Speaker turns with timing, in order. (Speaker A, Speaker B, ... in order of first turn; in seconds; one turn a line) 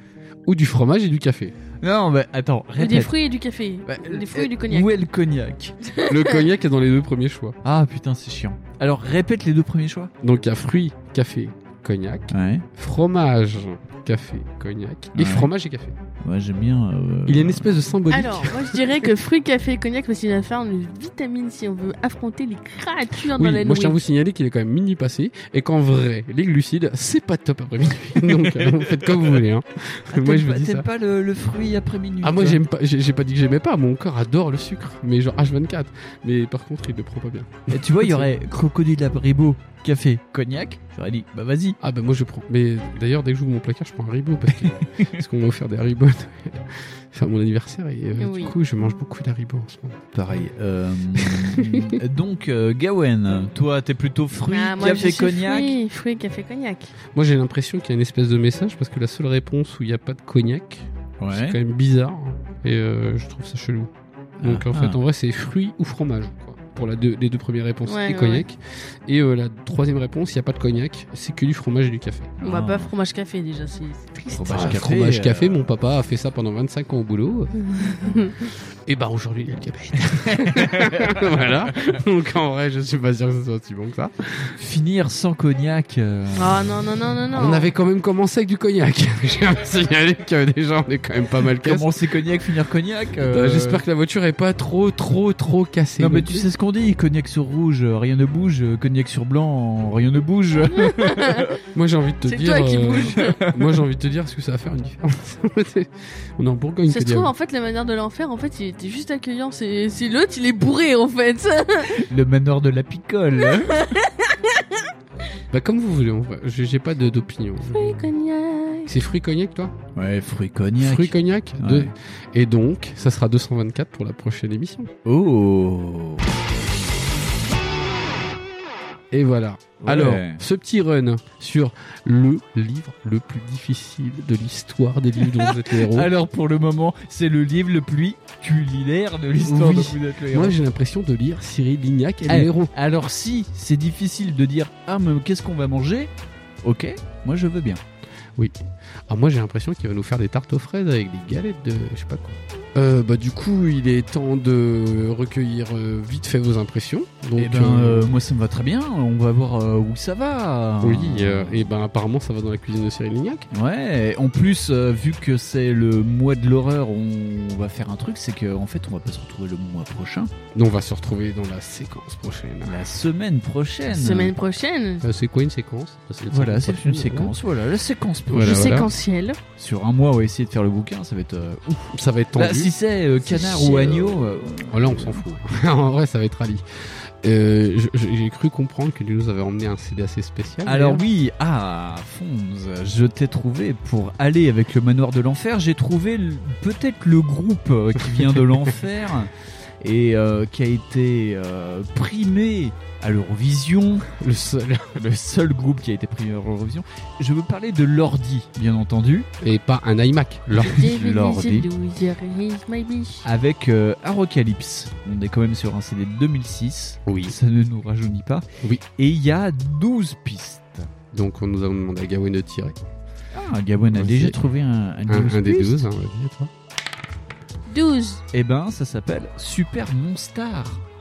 Speaker A: 0.5-1.6
Speaker B: 1.8-3.1
Speaker C: 2.8-4.9
Speaker B: 3.9-5.8
Speaker C: 5.8-6.4
Speaker A: 6.1-7.6
Speaker B: 7.6-10.1
Speaker A: 10.2-15.9
Speaker B: 12.3-12.7
Speaker B: 15.2-15.5
Speaker B: 16.2-17.7
Speaker A: 17.3-19.1
Speaker C: 18.1-24.0
Speaker A: 23.3-30.9
Speaker B: 30.1-32.6
Speaker A: 32.2-38.3
Speaker B: 37.7-41.8
Speaker A: 41.8-50.0
Speaker C: 48.2-48.5
Speaker B: 50.1-55.8
Speaker A: 51.2-52.0
Speaker C: 54.5-56.9
Speaker A: 57.1-72.3
Speaker B: 61.2-61.6
Speaker B: 64.4-65.0
Speaker C: 67.9-68.5
Speaker B: 72.4-72.9
Speaker C: 72.4-74.8
Speaker B: 74.3-75.6
Speaker A: 74.5-84.5
Speaker C: 77.6-78.4
Speaker B: 80.3-81.4
Speaker B: 84.6-86.6
Speaker C: 86.3-87.7
Speaker A: 87.3-91.9
Speaker B: 91.6-93.8
Speaker A: 93.2-96.5
Speaker B: 96.0-101.5
Speaker C: 100.7-101.6
Speaker A: 101.7-107.3
Speaker C: 102.2-103.4
Speaker C: 106.9-112.0
Speaker B: 112.0-113.9
Speaker C: 113.5-114.9
Speaker A: 115.5-118.1
Speaker C: 117.7-118.9
Speaker A: 118.9-119.8
Speaker B: 120.0-121.9
Speaker A: 120.8-124.9
Speaker B: 125.0-126.3
Speaker A: 129.1-136.1
Speaker B: 129.8-130.4
Speaker B: 135.2-140.6
Speaker A: 139.4-142.7
Speaker B: 142.3-146.1
Speaker B: 146.6-147.8
Speaker A: 149.1-158.2
Speaker B: 157.4-161.7
Speaker A: 160.8-163.5
Speaker B: 163.5-170.3
Speaker A: 170.5-172.8
Speaker B: 172.7-174.3
Speaker C: 173.9-175.1
Speaker A: 175.0-177.3
Speaker B: 176.3-178.9
Speaker A: 178.3-178.9
Speaker C: 178.4-179.4
Speaker B: 179.6-185.3
Speaker A: 181.9-182.7
Speaker C: 183.2-184.1
Speaker A: 184.7-191.0
Speaker B: 190.7-204.1
Speaker A: 204.1-205.0
Speaker B: 204.9-209.3
Speaker A: 209.4-210.9
Speaker C: 210.6-213.2
Speaker B: 210.6-211.7
Speaker B: 213.2-218.4
Speaker A: 217.1-217.3
Speaker B: 219.0-220.9
Speaker A: 221.1-222.8
Speaker B: 223.3-225.9
Speaker A: 223.9-224.4
Speaker A: 225.1-226.5
Speaker C: 227.7-228.2
Speaker B: 228.3-230.8